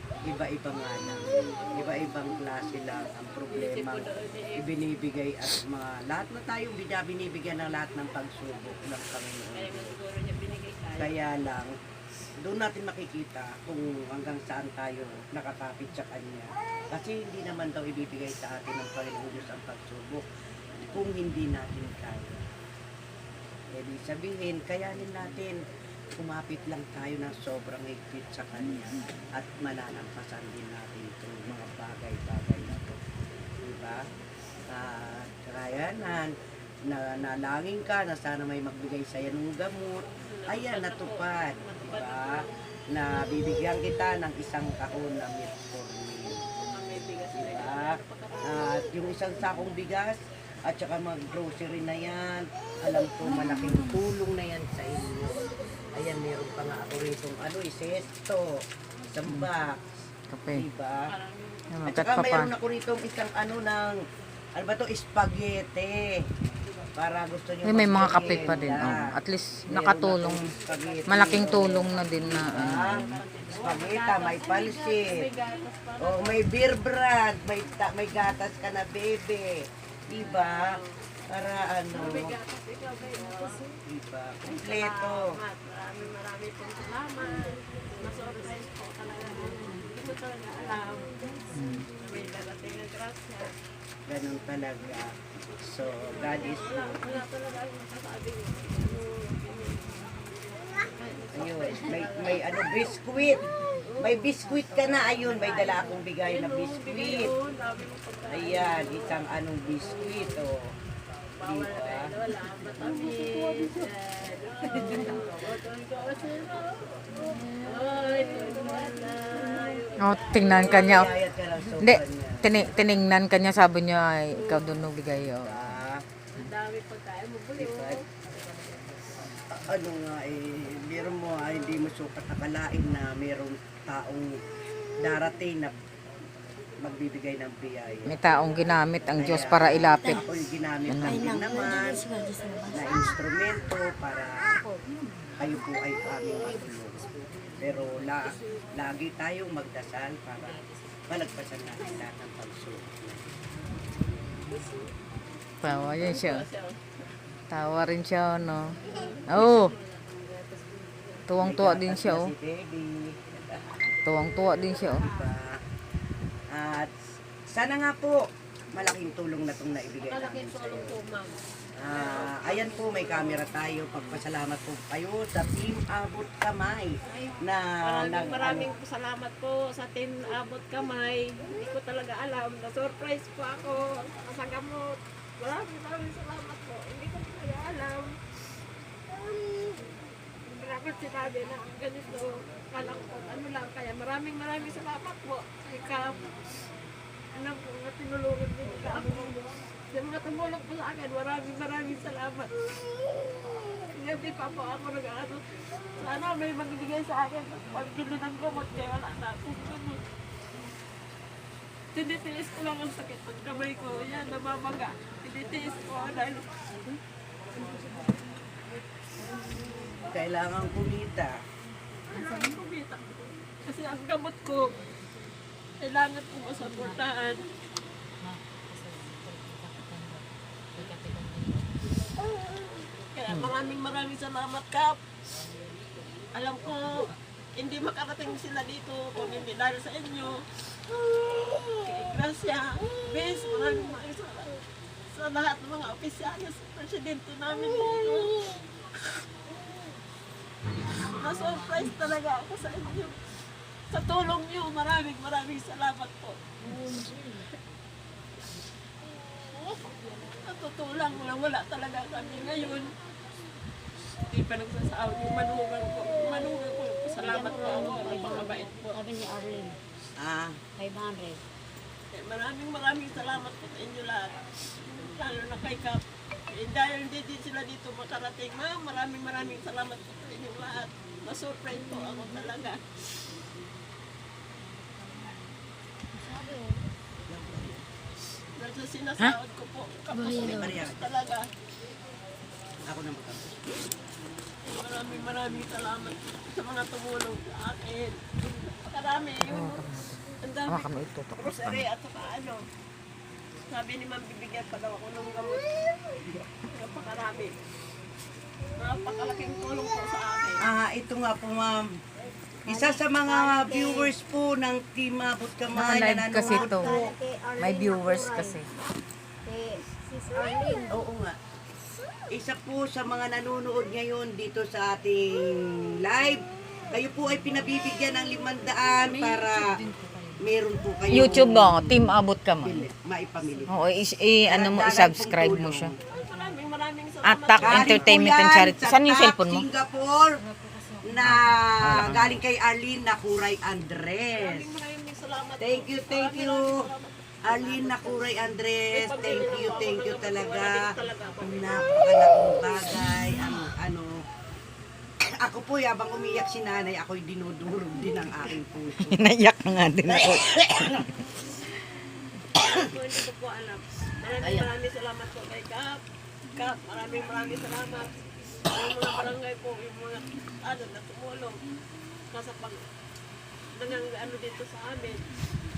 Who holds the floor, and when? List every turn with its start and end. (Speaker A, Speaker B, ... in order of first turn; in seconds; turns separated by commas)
Speaker A: 0.2-9.9, Speaker B: 3.5-4.8, Speaker B: 9.5-11.2, Speaker A: 10.9-11.7, Speaker A: 12.4-20.2, Speaker A: 20.8-22.4, Speaker A: 23.7-25.6, Speaker A: 26.1-33.0, Speaker A: 33.6-34.0, Speaker A: 34.7-36.3, Speaker A: 36.8-46.4, Speaker B: 40.2-42.5, Speaker B: 46.7-48.9, Speaker A: 47.4-55.4, Speaker A: 55.9-59.8, Speaker C: 60.3-60.6, Speaker A: 60.5-61.1, Speaker B: 61.1-61.7, Speaker C: 61.7-62.5, Speaker A: 61.9-64.0, Speaker A: 64.5-66.2, Speaker A: 67.0-69.1, Speaker C: 67.6-70.5, Speaker A: 69.7-75.3, Speaker C: 71.1-73.1, Speaker B: 72.4-76.5, Speaker A: 76.0-80.8, Speaker B: 80.1-81.0, Speaker A: 81.3-82.3, Speaker B: 81.9-83.6, Speaker A: 83.8-85.3, Speaker B: 84.4-91.2, Speaker C: 91.5-91.9, Speaker B: 92.0-93.5, Speaker A: 94.1-97.0, Speaker B: 96.1-100.2, Speaker B: 100.8-102.6, Speaker A: 101.3-103.4, Speaker B: 103.8-104.3, Speaker A: 104.0-107.3, Speaker B: 105.2-109.2, Speaker A: 108.3-110.6, Speaker B: 111.4-117.0, Speaker A: 111.4-112.1, Speaker D: 117.2-119.8, Speaker B: 117.6-121.2, Speaker C: 120.0-121.1, Speaker A: 120.5-122.7, Speaker C: 121.8-125.8, Speaker A: 125.4-126.0, Speaker B: 126.3-128.0, Speaker A: 127.6-128.0, Speaker A: 129.5-134.4, Speaker A: 135.0-135.8, Speaker A: 136.8-138.2, Speaker C: 138.1-140.2, Speaker A: 139.2-142.1, Speaker C: 140.9-141.3, Speaker D: 141.0-143.2, Speaker A: 142.7-144.6, Speaker A: 145.4-153.2, Speaker C: 155.6-156.4, Speaker B: 155.8-156.8, Speaker C: 157.5-158.8, Speaker B: 159.0-161.2, Speaker C: 159.3-159.7, Speaker C: 161.3-162.3, Speaker A: 161.4-163.8, Speaker C: 164.0-165.1, Speaker B: 164.5-165.3, Speaker A: 165.0-165.6, Speaker A: 166.5-166.9, Speaker A: 167.5-171.0, Speaker B: 170.0-173.4, Speaker A: 171.8-178.7, Speaker B: 177.1-188.1, Speaker B: 190.5-196.3, Speaker B: 197.3-203.2, Speaker B: 203.8-205.4, Speaker B: 206.0-210.0, Speaker B: 211.9-216.5, Speaker A: 220.1-221.4, Speaker B: 222.1-224.7, Speaker B: 225.8-227.4, Speaker D: 228.2-230.2, Speaker D: 230.8-231.6, Speaker B: 232.9-235.0, Speaker B: 236.3-240.4, Speaker B: 241.2-248.5, Speaker B: 251.0-253.1, Speaker B: 253.9-257.0, Speaker B: 260.3-262.9, Speaker B: 264.3-269.0, Speaker D: 267.2-269.8, Speaker A: 270.2-270.6, Speaker D: 270.8-271.4, Speaker B: 272.1-274.4, Speaker B: 275.0-282.8, Speaker D: 286.1-286.8, Speaker A: 287.3-287.8, Speaker B: 288.6-291.5, Speaker D: 290.1-290.8, Speaker A: 290.3-291.1, Speaker A: 292.9-293.9, Speaker B: 294.6-299.8, Speaker C: 299.5-301.8, Speaker B: 300.4-302.6, Speaker B: 303.7-305.7, Speaker B: 306.7-307.5, Speaker B: 308.8-310.6, Speaker A: 310.6-311.9, Speaker A: 312.6-317.1, Speaker D: 312.7-314.1, Speaker C: 315.7-316.9, Speaker D: 316.4-318.6, Speaker C: 317.6-318.6, Speaker D: 319.4-321.1, Speaker A: 320.9-321.4, Speaker A: 322.3-329.8, Speaker A: 330.4-333.8, Speaker C: 331.1-332.9, Speaker C: 333.7-335.9, Speaker A: 334.5-335.9, Speaker B: 336.1-338.3, Speaker C: 337.2-339.6, Speaker A: 337.6-340.4, Speaker D: 340.4-341.3, Speaker A: 341.0-344.7, Speaker C: 341.2-342.4, Speaker B: 344.4-348.3, Speaker A: 345.6-346.7, Speaker A: 347.4-354.2, Speaker B: 348.9-352.1, Speaker A: 355.3-359.2, Speaker C: 359.0-361.1, Speaker A: 360.1-361.0, Speaker B: 362.5-366.0, Speaker A: 364.4-364.7, Speaker B: 366.6-368.1, Speaker B: 368.6-371.6, Speaker B: 372.3-372.8, Speaker B: 373.8-375.2